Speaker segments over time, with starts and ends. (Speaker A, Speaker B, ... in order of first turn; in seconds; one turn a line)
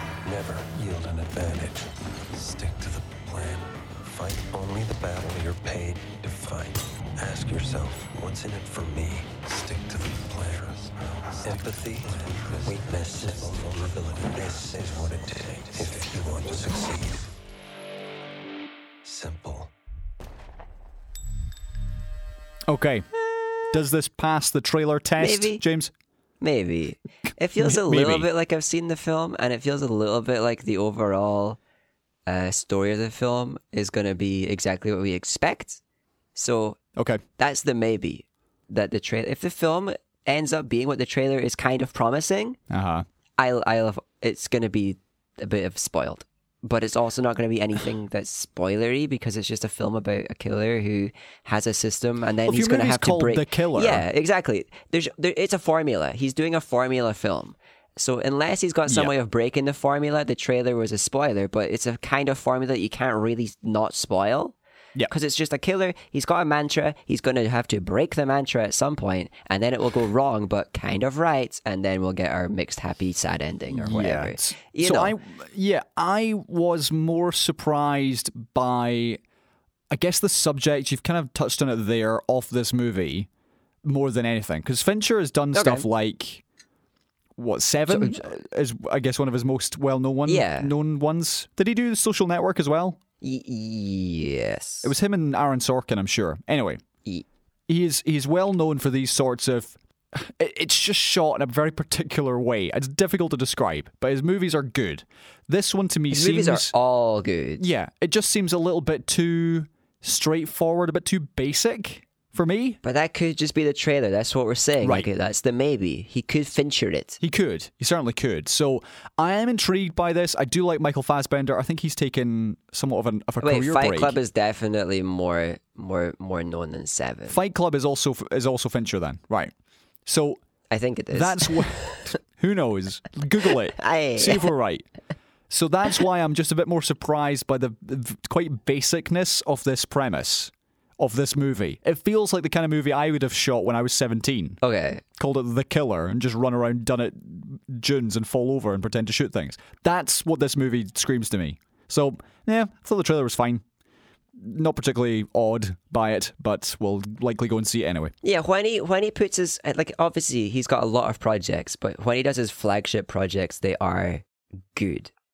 Speaker A: 0.2-17.3
Speaker A: 19.0-19.7
Speaker B: 22.7-23.1
Speaker C: 23.2-23.7
Speaker B: 23.7-25.9
Speaker C: 25.2-25.6
Speaker C: 26.4-31.6
Speaker B: 27.6-28.3
Speaker C: 32.3-35.8
Speaker C: 36.3-36.8
Speaker B: 37.0-37.2
Speaker C: 37.4-42.6
Speaker B: 42.7-43.0
Speaker C: 43.4-64.5
Speaker B: 52.5-54.0
Speaker B: 58.9-59.1
Speaker C: 65.1-75.1
Speaker B: 73.7-79.2
Speaker B: 79.9-83.3
Speaker B: 83.8-86.4
Speaker C: 85.5-85.8
Speaker B: 87.4-93.0
Speaker C: 87.9-88.2
Speaker C: 90.3-90.7
Speaker C: 93.2-94.9
Speaker B: 94.8-96.8
Speaker B: 97.7-106.7
Speaker C: 106.1-107.6
Speaker B: 107.6-112.8
Speaker C: 112.8-117.2
Speaker B: 117.2-124.1
Speaker C: 123.4-127.4
Speaker B: 127.3-129.5
Speaker B: 130.1-130.4
Speaker C: 130.7-132.2
Speaker B: 131.1-134.9
Speaker C: 133.8-134.5
Speaker B: 135.5-144.6
Speaker C: 144.6-145.0
Speaker B: 145.2-153.6
Speaker B: 154.3-158.1
Speaker C: 158.2-165.1